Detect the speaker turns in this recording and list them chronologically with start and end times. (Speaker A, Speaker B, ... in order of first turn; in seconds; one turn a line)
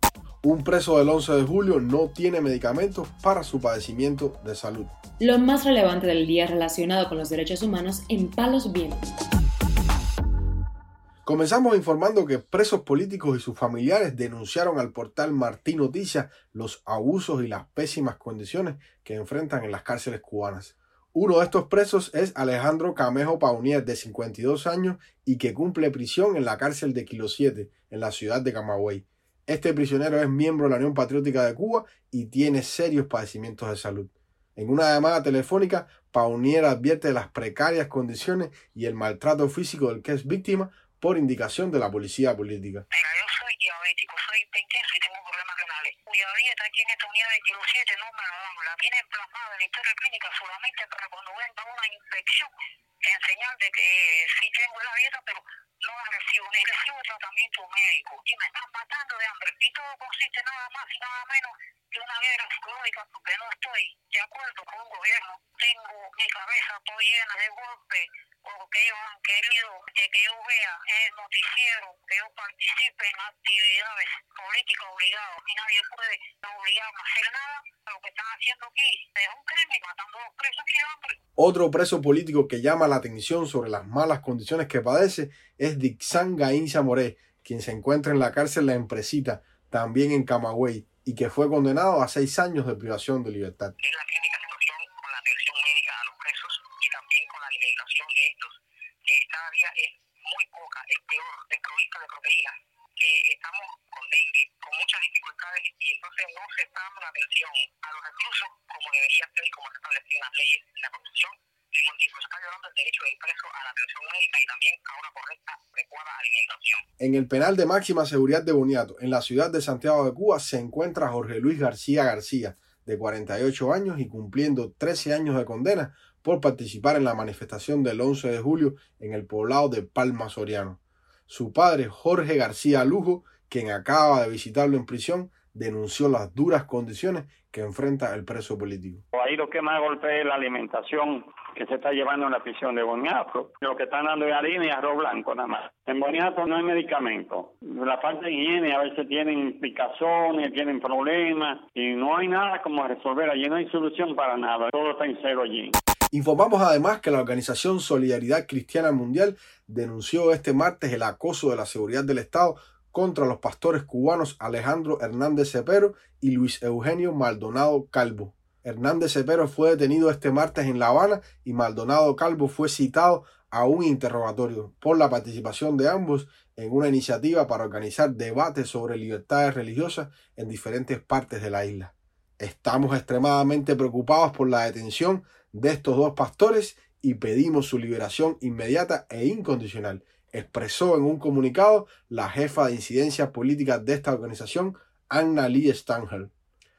Speaker A: 0.4-5.0
Speaker B: 5.2-9.0
Speaker A: 11.2-42.8
Speaker C: 42.9-52.5
Speaker C: 53.0-81.2
Speaker A: 81.4-93.8
Speaker C: 93.8-116.8
Speaker A: 117.0-139.0
Speaker D: 139.1-155.8
Speaker A: 156.1-196.3